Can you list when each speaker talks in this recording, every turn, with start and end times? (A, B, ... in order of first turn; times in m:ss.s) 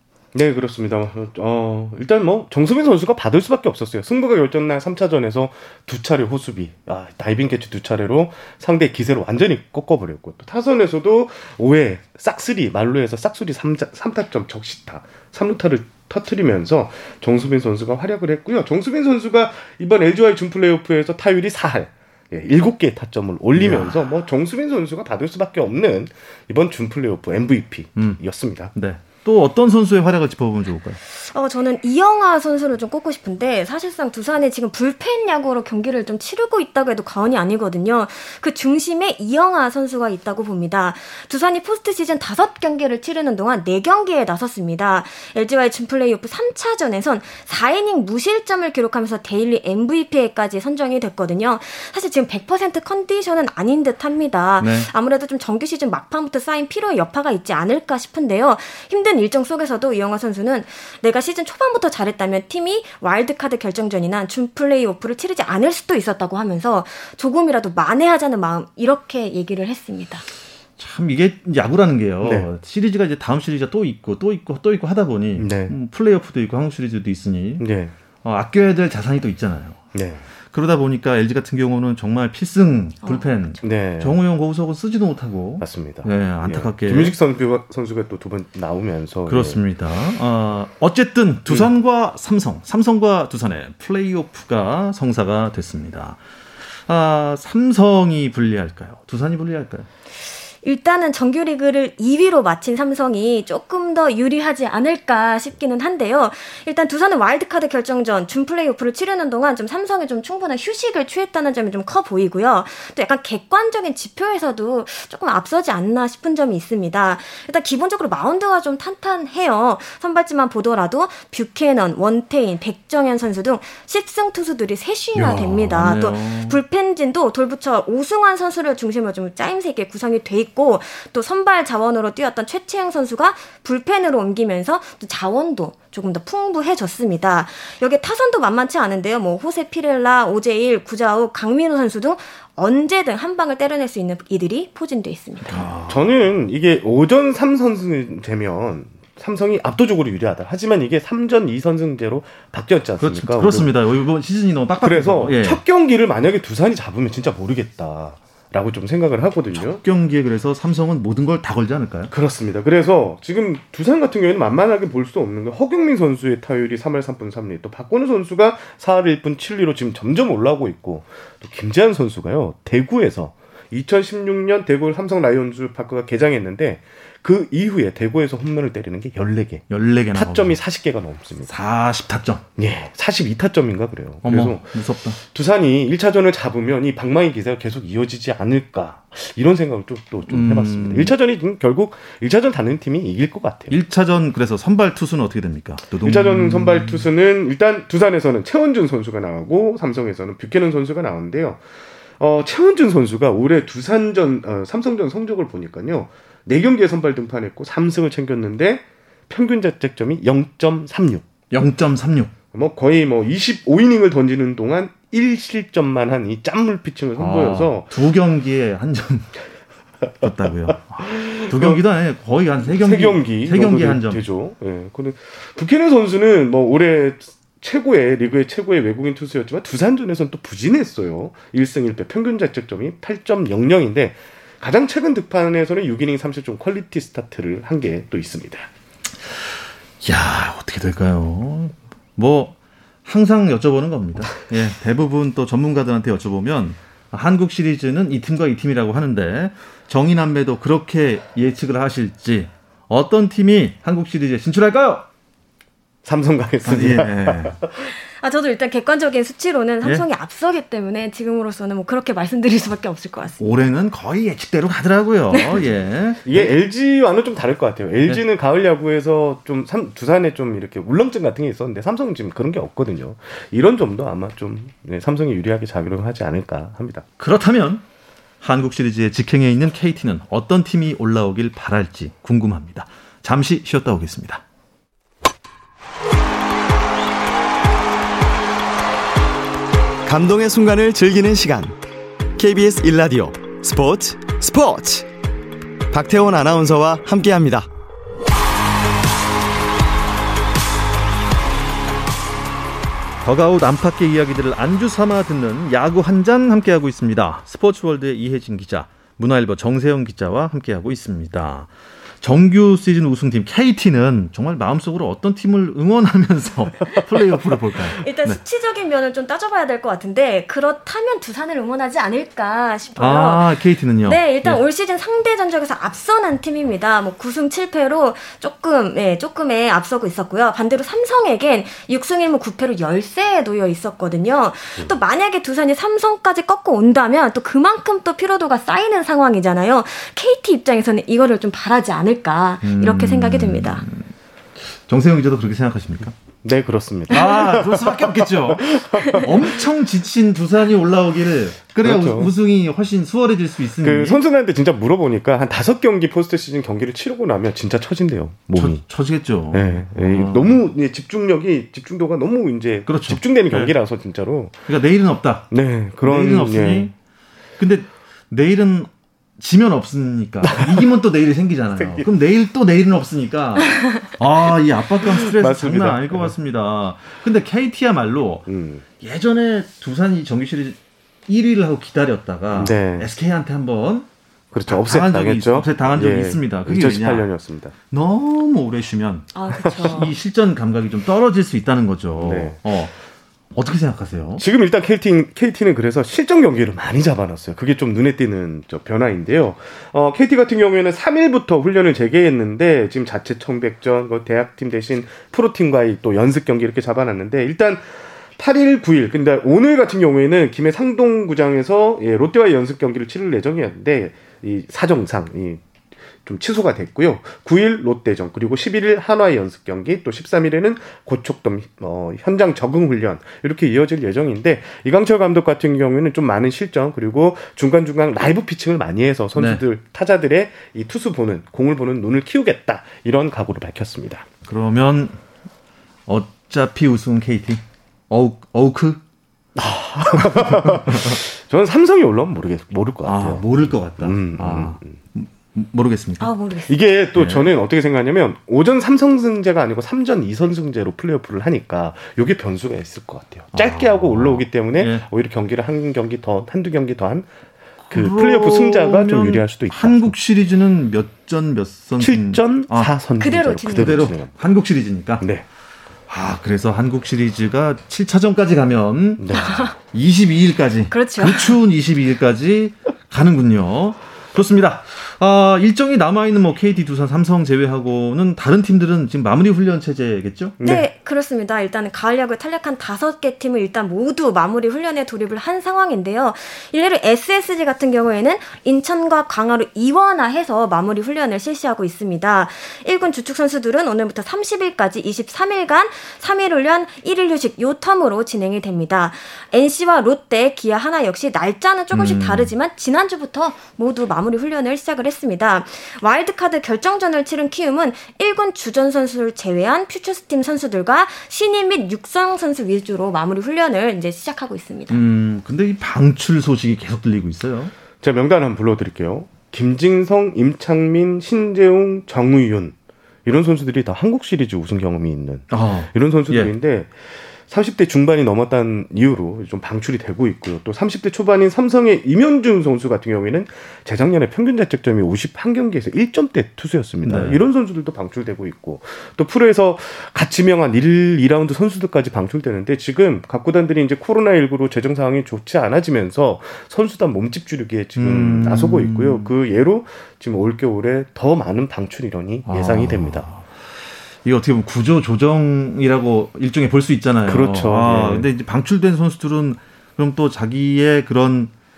0:00.3-0:28.7 A
0:23.5-0:24.0 B
0:28.7-0:31.0 B
0:31.1-1:10.2 C
0:54.6-0:54.9 B
1:10.8-1:17.6 B
1:12.2-1:12.5 A
1:15.4-1:15.7 A
1:17.6-1:17.9 A
1:18.2-1:19.8 B
1:19.9-1:20.2 A
1:20.5-1:27.2 B
1:23.0-1:23.6 C
1:23.6-1:24.2 A
1:25.6-1:29.6 A
1:29.3-1:36.2 B
1:36.9-1:39.9 B
1:40.6-2:25.7 C
2:05.1-2:06.6 B
2:25.4-2:26.1 B
2:25.8-2:33.7 A
2:33.0-2:35.6 B
2:34.8-2:39.8 A
2:39.5-2:42.1 B
2:42.1-3:01.5 A
2:59.7-3:00.6 B
3:01.5-3:02.4 B
3:02.6-3:04.7 A
3:04.2-3:05.2 B
3:05.2-3:13.8 A
3:10.3-3:11.1 B
3:13.7-3:17.1 B
3:16.0-3:21.6 A
3:22.2-3:31.3 A
3:31.5-3:32.3 B
3:32.5-3:37.9 A
3:37.2-3:39.4 B
3:40.2-3:44.2 B
3:41.0-3:41.8 A
3:42.6-3:58.7 A
3:59.3-4:15.1 B
4:16.0-4:17.9 A
4:16.6-4:17.6 B
4:18.2-4:23.6 C
4:23.4-4:26.5 B
4:25.3-4:25.6 C
4:26.2-4:37.0 A
4:37.2-4:37.8 B
4:38.4-4:44.4 B
4:50.0-4:51.8 D
4:52.4-4:55.1 D
4:55.9-4:57.7 D
5:03.2-5:11.7 B
5:12.2-5:18.4 B
5:18.0-5:43.8 C
5:23.0-5:24.6 B
5:42.6-5:46.1 B
5:46.4-5:49.6 A
5:47.1-5:54.2 B
5:51.8-5:52.3 A
5:53.8-5:58.8 A
5:58.5-6:00.6 B
5:59.5-6:04.6 A
6:02.9-6:03.7 B
6:04.7-6:05.5 B
6:05.5-6:06.9 A
6:06.0-6:06.9 B
6:07.6-6:18.5 B
6:10.4-6:10.8 A
6:11.8-6:12.0 A
6:15.0-6:16.3 A
6:18.5-6:18.8 A
6:19.0-6:24.1 B
6:22.6-6:23.1 A
6:24.5-6:27.7 A
6:24.7-6:27.2 B
6:27.9-6:32.9 B
6:29.3-6:30.1 C
6:32.2-6:32.6 A
6:33.5-6:34.4 B
6:34.4-6:55.6 A
6:56.2-7:14.3 A
7:09.3-7:09.6 B
7:14.4-7:15.2 B
7:16.1-7:19.0 B
7:19.6-7:24.9 A
7:20.1-7:21.2 B
7:23.0-7:26.3 B
7:26.2-7:26.8 C
7:26.7-7:37.3 A
7:27.2-7:27.5 B
7:33.5-7:35.0 B
7:37.9-7:40.2 A
7:37.9-7:42.9 B
7:42.0-7:44.3 A
7:43.2-7:44.1 C
7:43.7-7:45.2 B
7:45.2-7:45.4 A
7:46.1-8:00.6 B
7:49.2-7:49.6 A
7:49.3-7:49.7 C
7:50.9-7:51.6 C
8:00.6-8:00.9 A
8:00.6-8:35.0 C
8:21.9-8:22.5 B
8:34.9-8:37.7 B
8:38.0-8:42.7 A
8:43.2-9:13.2 A
8:45.5-8:46.5 B
8:57.0-8:57.4 B
9:08.0-9:09.3 B
9:12.5-9:13.6 B
9:14.2-9:21.5 B
9:17.3-9:18.3 A